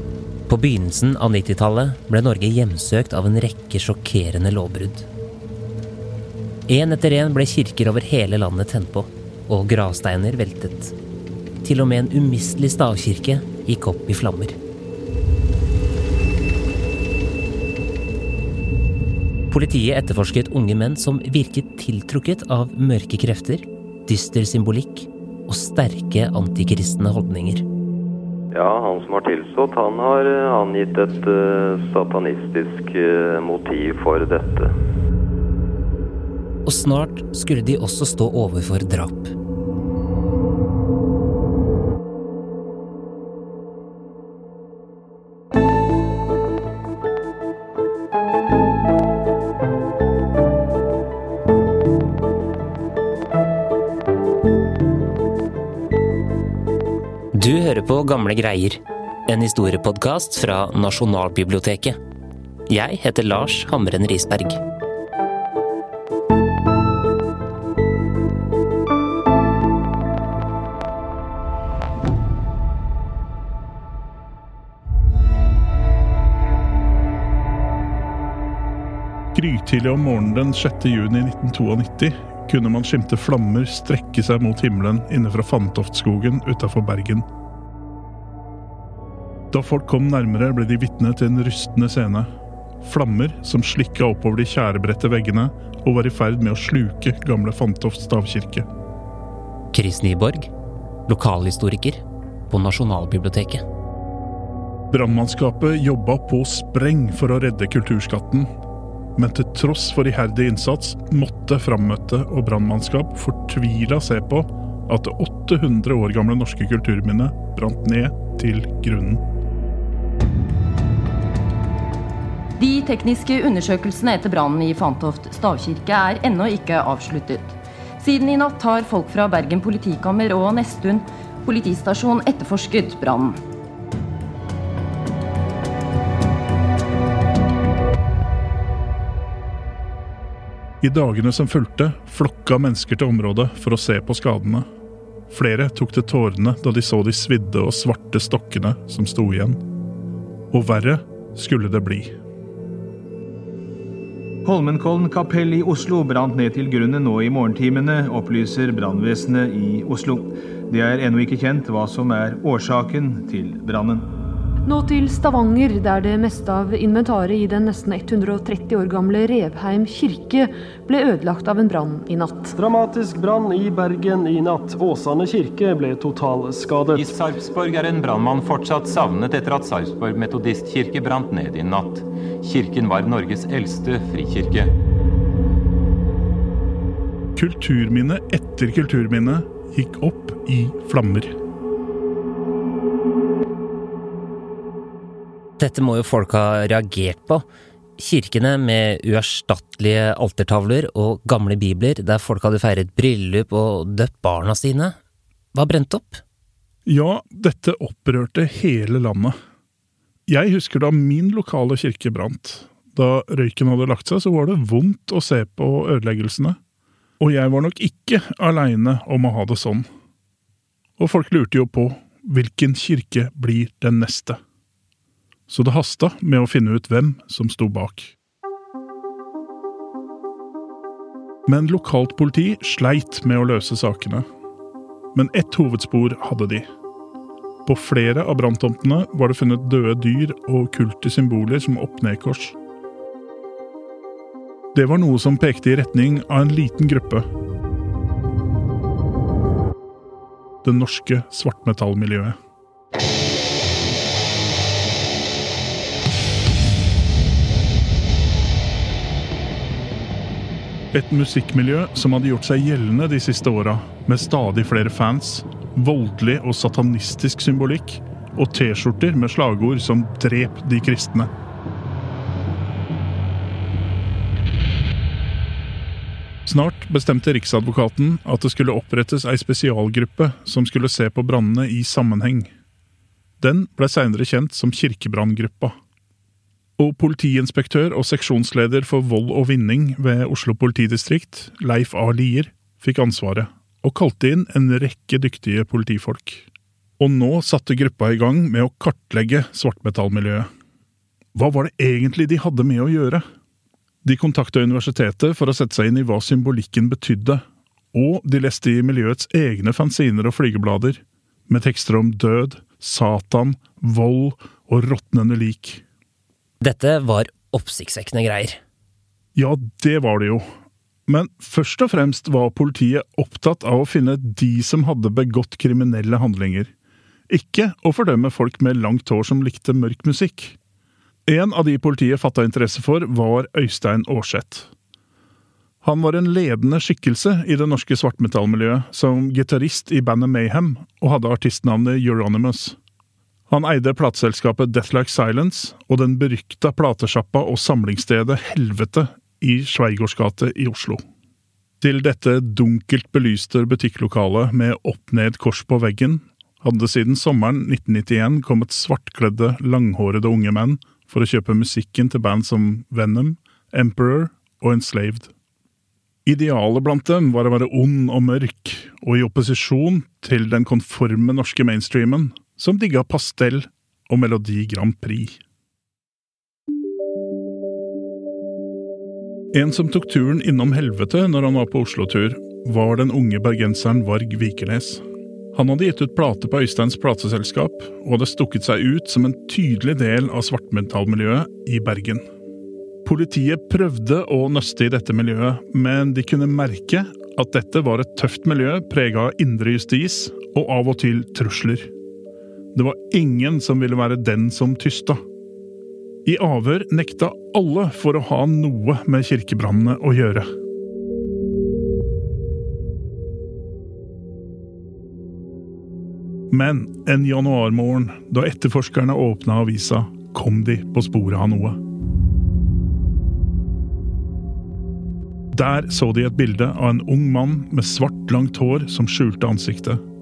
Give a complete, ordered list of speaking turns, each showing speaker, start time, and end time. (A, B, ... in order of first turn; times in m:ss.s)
0:00.5-0:05.1 A
0:06.7-0:10.9 A
0:11.6-0:14.6 A
0:19.5-0:27.6 A
0:28.5-0:34.7 B
0:36.7-0:39.3 A
0:57.3-1:02.0 A
1:02.7-1:04.6 A
1:19.3-1:27.3 C
1:29.5-1:32.3 C
1:32.8-1:38.7 C
1:39.7-1:40.5 A
1:41.1-1:43.6 A
1:44.9-1:48.5 C
1:49.2-1:59.2 C
2:02.6-2:13.4 D
2:20.8-2:24.7 C
2:25.3-2:29.6 C
2:30.5-2:32.2 C
2:34.4-2:44.1 E
2:44.7-2:52.6 F
2:52.6-2:57.2 G
2:56.9-3:04.7 H
3:07.4-3:11.4 C
3:15.6-3:17.4 A
3:18.0-3:25.0 A
3:25.5-3:26.2 A
3:26.9-3:29.4 C
3:30.3-3:36.6 C
3:37.2-3:39.9 C
3:41.0-3:44.4 C
3:45.5-3:48.2 C
3:51.5-3:54.3 C
3:55.1-3:56.7 C
3:57.6-4:02.6 C
4:04.7-4:07.2 C
4:10.6-4:12.4 C
4:20.9-4:31.3 C
4:36.5-4:42.5 C
4:43.4-4:45.8 C
4:46.8-4:56.5 C
4:57.0-5:00.5 C
5:01.3-5:03.2 C
5:04.0-5:15.8 C
5:16.6-5:18.6 A
5:19.4-5:20.4 C
5:21.1-5:26.7 C
5:27.3-5:30.6 C
5:31.3-5:34.7 C
5:35.8-5:42.8 C
5:43.5-5:51.0 C
5:51.8-6:05.3 C
6:06.3-6:15.4 C
6:19.5-6:32.3 C
6:33.0-6:41.9 C
6:42.7-6:45.2 C
6:46.2-6:50.5 C
6:56.5-7:01.8 C
7:05.5-7:10.0 C